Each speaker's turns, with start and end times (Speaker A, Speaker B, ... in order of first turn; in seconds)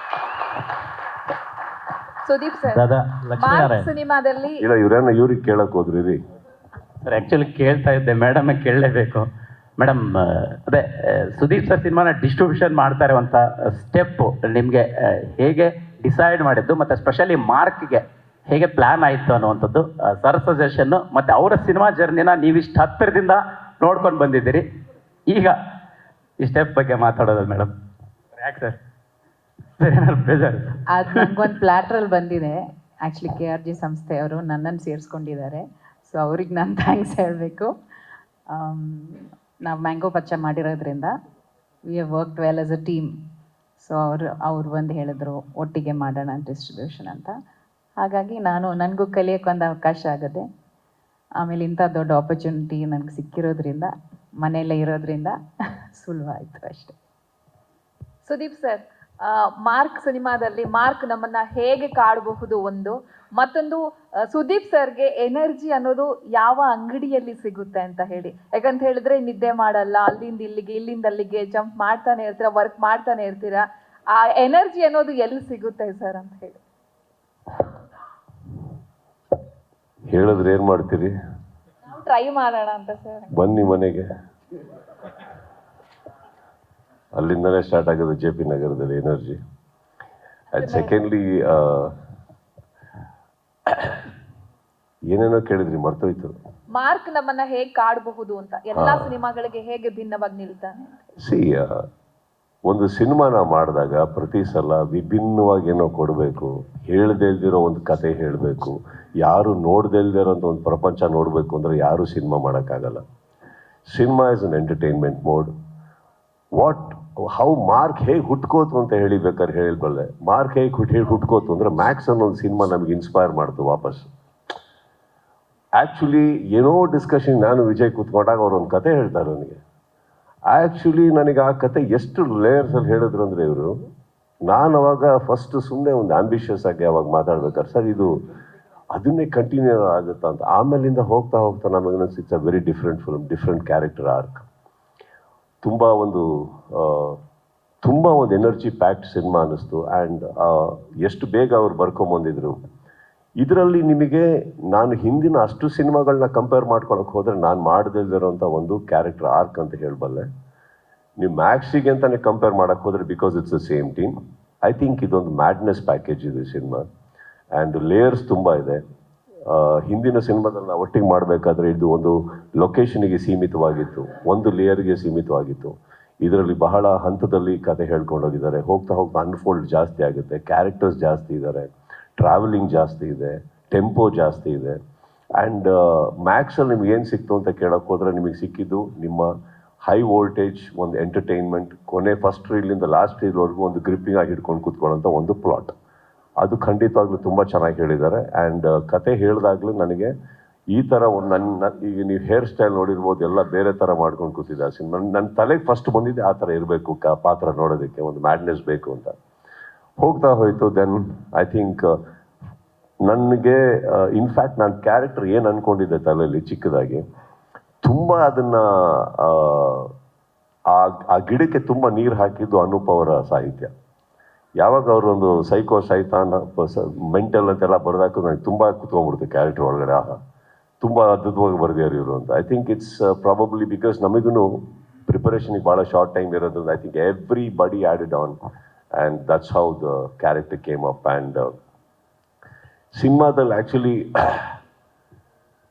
Speaker A: 2.2-2.8, 3.4-4.6, 58.2-76.6, 81.9-83.3, 90.5-91.0, 96.7-100.8
Speaker B: 2.7-3.9, 7.0-24.6, 25.3-25.6, 26.4-27.7, 28.4-28.8, 29.8-31.3
Speaker C: 4.6-6.2, 80.1-81.1, 83.3-84.1, 87.2-89.4, 90.5-91.9, 93.7-93.9, 95.1-96.3, 98.7-99.1, 101.2-101.7, 102.7-113.0, 113.9-115.5, 116.6-124.1, 125.8-129.6, 130.5-133.7, 134.5-138.1, 138.9-144.4, 145.6-147.2, 147.8-152.6, 153.4-160.3, 161.2-166.8, 167.6-168.8, 169.5-184.8, 185.4-189.3, 189.8-195.7, 196.4-200.1, 200.7-209.1, 210.0-212.0, 213.1-217.0, 217.8-219.9, 220.7-223.7, 224.6-230.2, 230.8-238.4, 238.9-241.5, 242.9-244.4
Speaker D: 30.9-37.7, 38.5-41.1, 41.9-43.1, 43.8-47.3, 48.0-50.4, 51.4-55.3, 56.0-56.9